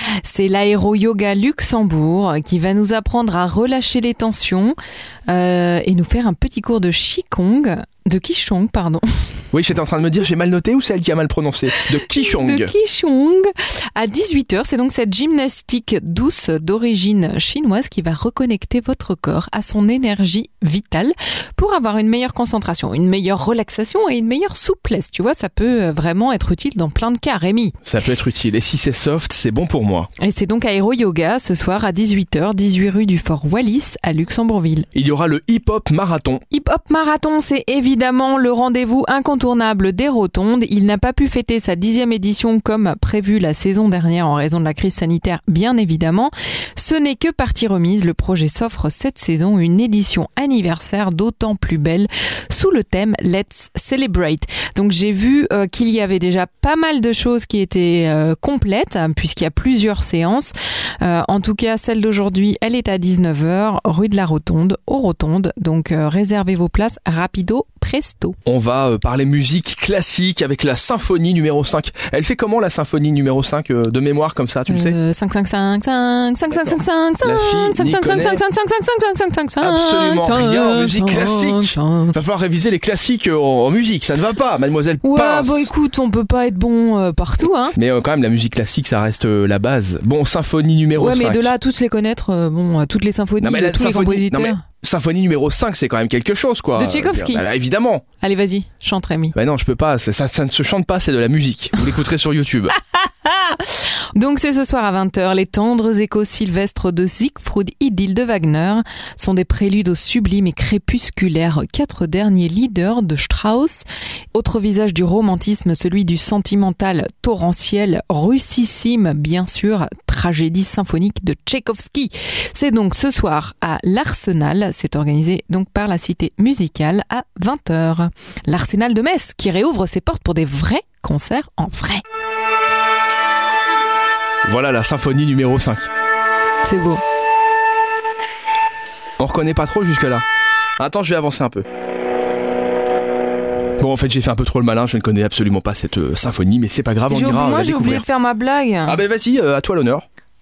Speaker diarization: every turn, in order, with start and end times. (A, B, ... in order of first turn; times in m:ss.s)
0:00.2-0:04.8 A
0:05.3-0:09.0 A
0:09.5-0:12.7 B
0:11.9-0:27.8 A
0:27.8-0:30.1 B
0:30.2-0:34.9 A
0:35.0-0:36.4 B
0:36.5-1:08.4 A
1:08.5-1:15.0 B
1:14.7-1:22.2 A
1:17.2-1:18.4 B
1:19.6-1:25.7 B
1:25.0-1:27.8 A
1:27.8-1:31.5 B
1:31.0-1:34.6 A
1:33.4-1:38.0 B
1:36.8-1:37.4 A
1:38.2-1:39.4 A
1:39.4-1:42.8 B
1:42.9-2:12.0 A
2:14.4-2:15.9 B
2:16.6-2:17.0 A
2:19.2-2:20.2 B
2:20.8-2:21.7 B
2:23.8-2:28.0 B
2:27.1-2:29.0 A
2:28.9-2:30.1 B